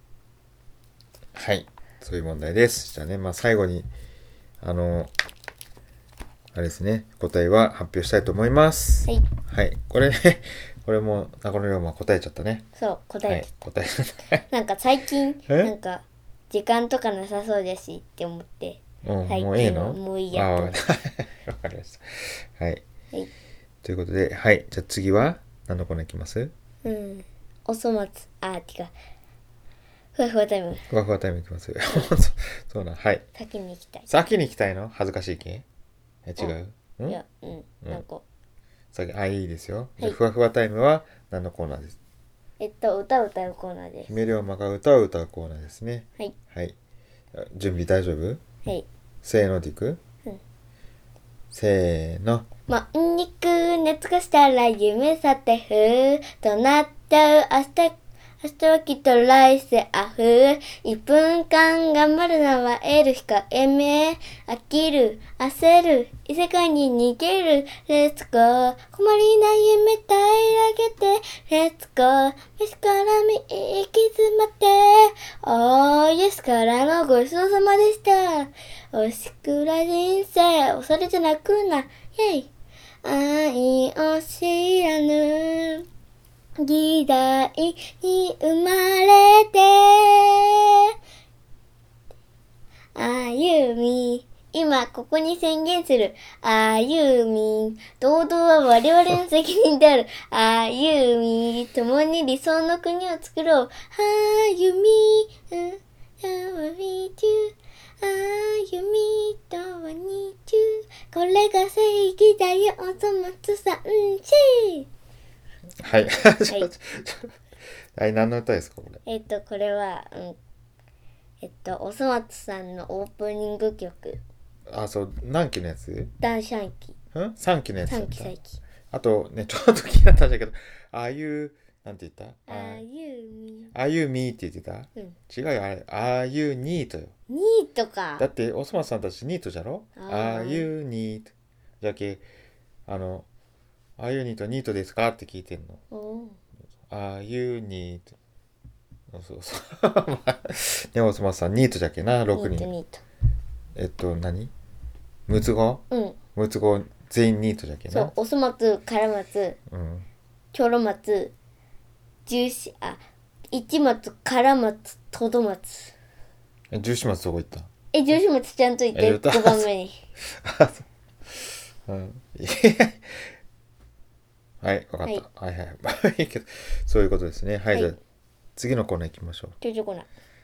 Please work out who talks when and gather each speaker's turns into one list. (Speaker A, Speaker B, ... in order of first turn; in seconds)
Speaker A: 1.3-3.9, 4.6-5.1, 6.5-12.7, 13.2-14.4, 15.5-15.7, 19.0-22.8, 23.8-26.5, 30.9-33.2, 34.1-35.6, 36.2-37.2, 38.9-42.0, 44.1-46.8, 47.3-48.4, 49.2-50.0, 51.5-52.5, 115.8-117.3, 117.9-119.0, 124.7-126.1, 127.1-128.3, 128.9-132.8, 133.7-137.1, 138.2-142.2, 142.9-143.2, 144.0-145.8, 146.9-148.1, 149.1-152.7, 153.7-154.5, 155.3-158.1, 159.7-160.1, 166.7-167.7, 168.9-169.7, 170.2-170.8, 171.8-173.3, 174.6-178.0, 178.6-179.6
Speaker B: 12.8-13.5, 14.5-20.8, 26.8-28.9, 30.1-30.8, 33.4-34.1, 37.1-38.2, 42.6-44.1, 52.7-82.5, 83.0-85.8, 86.6-90.9, 92.9-114.9, 119.0-120.4, 121.4-124.2, 126.2-127.0, 127.9-128.6, 132.5-133.7, 137.3-138.2, 140.0-140.7, 145.9-146.4, 152.3-153.0, 155.9-156.2, 157.9-159.6, 160.5-161.3, 162.3-163.0, 163.5-165.9, 167.9-170.0, 177.7-178.0, 179.6-180.1